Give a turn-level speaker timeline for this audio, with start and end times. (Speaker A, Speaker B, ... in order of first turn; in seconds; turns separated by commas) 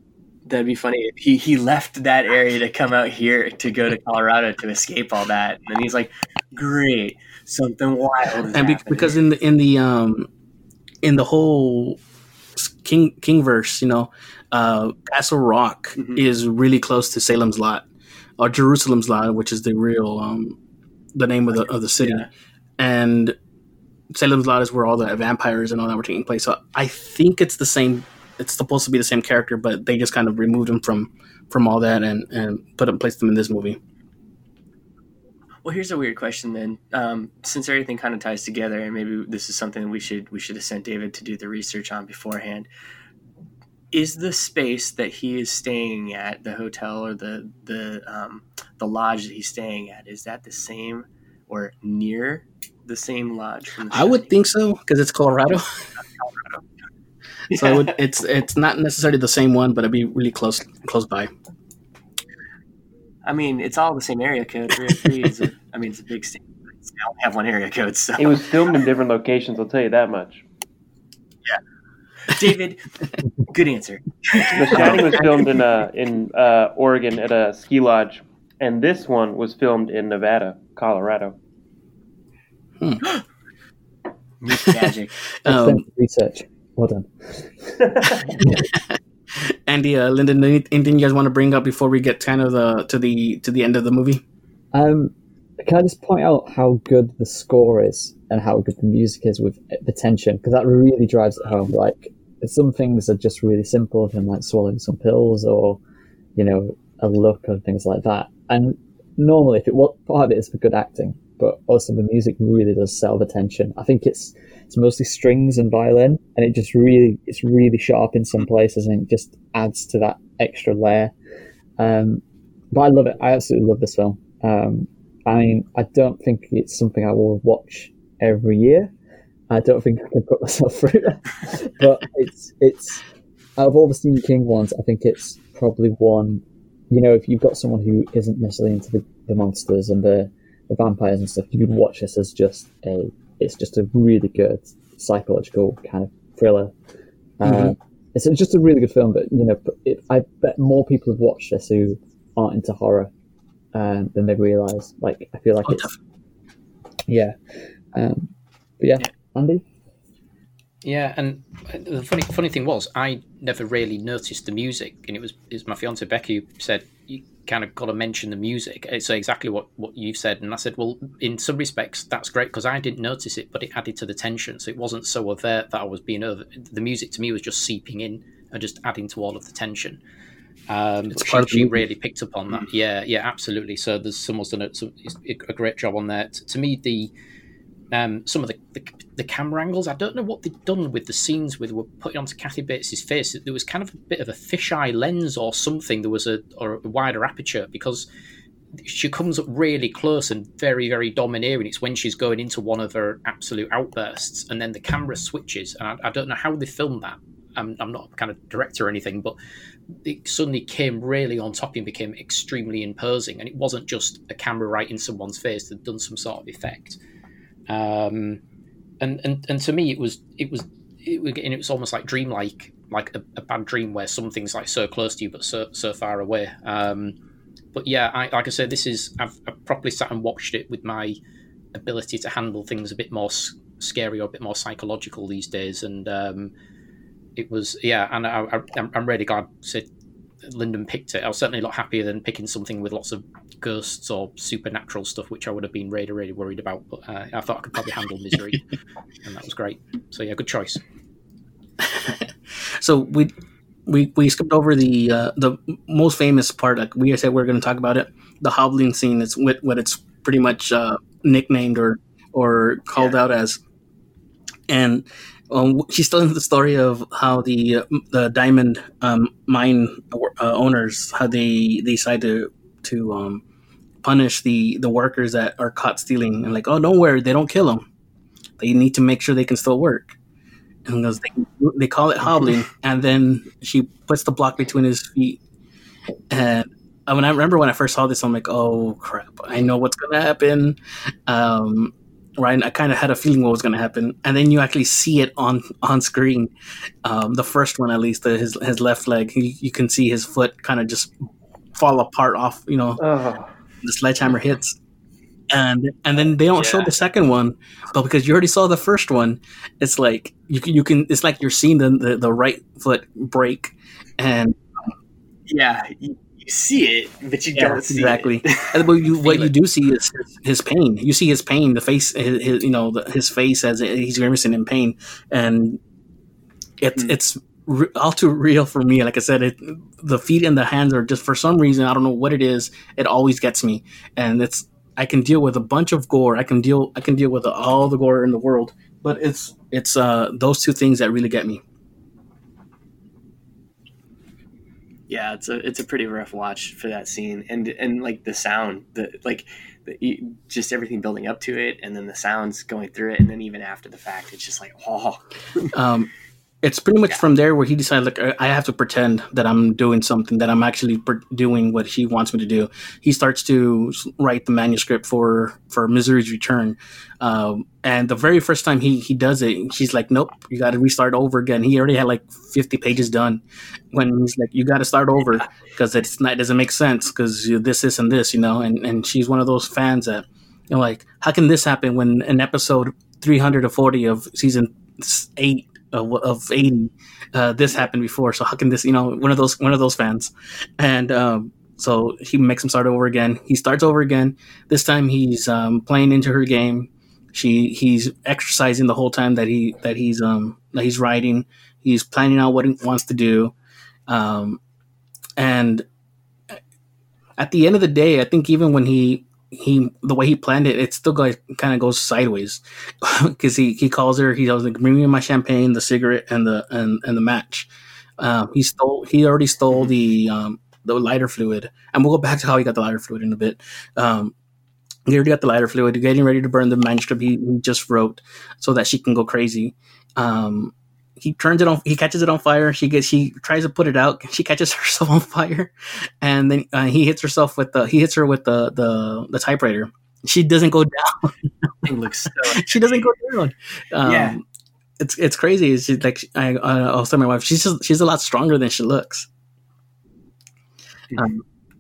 Speaker A: 0.5-9.2, Speaker B: 8.5-10.3, Speaker B: 11.0-12.0, Speaker B: 12.6-17.9, Speaker B: 18.4-20.6, Speaker B: 21.1-22.3, Speaker A: 21.6-22.3, Speaker B: 22.8-23.4, Speaker B: 24.1-33.8, Speaker A: 35.6-42.7, Speaker A: 43.9-54.3, Speaker B: 53.9-55.8, Speaker A: 57.5-57.9, Speaker B: 57.5-61.3, Speaker A: 63.2-68.5, Speaker C: 68.2-70.4, Speaker A: 72.3-72.8, Speaker A: 73.5-75.5, Speaker C: 74.5-81.3, Speaker B: 74.8-75.3, Speaker A: 84.4-85.1, Speaker B: 84.5-84.9, Speaker B: 85.4-85.8, Speaker D: 85.5-87.9, Speaker B: 88.4-94.2, Speaker D: 94.7-105.8, Speaker D: 106.4-121.1, Speaker D: 121.8-128.9, Speaker D: 129.5-133.0, Speaker D: 133.6-146.7, Speaker D: 147.4-153.1, Speaker B: 147.4-147.8, Speaker D: 153.7-155.9, Speaker B: 155.7-155.9, Speaker D: 157.1-157.4, Speaker D: 157.9-159.6, Speaker E: 160.8-180.0, Speaker E: 180.7-187.1, Speaker B: 181.1-181.8, Speaker E: 187.9-198.1, Speaker E: 198.8-209.4, Speaker E: 209.9-217.0, Speaker E: 217.7-218.4, Speaker E: 219.0-227.2, Speaker E: 227.7-231.2, Speaker E: 231.7-236.5, Speaker E: 237.4-239.9, Speaker E: 240.4-248.6, Speaker E: 249.2-250.8, Speaker B: 251.8-253.3, Speaker B: 253.9-263.6, Speaker B: 264.7-273.4, Speaker B: 274.0-277.8, Speaker B: 278.6-280.2, Speaker B: 280.9-285.4, Speaker B: 286.3-296.5, Speaker B: 297.0-301.1, Speaker B: 301.8-303.0, Speaker C: 303.0-303.5, Speaker B: 303.8-304.8, Speaker B: 305.5-314.6, Speaker A: 306.6-306.9, Speaker A: 315.5-318.8, Speaker B: 317.6-325.8, Speaker E: 319.2-319.5, Speaker B: 326.8-341.6, Speaker A: 345.1-355.7, Speaker B: 355.7-356.1, Speaker B: 356.6-373.4, Speaker B: 373.9-403.5, Speaker B: 404.1-404.6, Speaker B: 405.4-405.8, Speaker B: 407.4-424.3, Speaker B: 425.1-435.7, Speaker B: 436.2-441.3, Speaker A: 441.8-443.0, Speaker B: 442.5-444.4, Speaker A: 444.0-444.4, Speaker B: 445.0-449.3, Speaker B: 451.2-451.4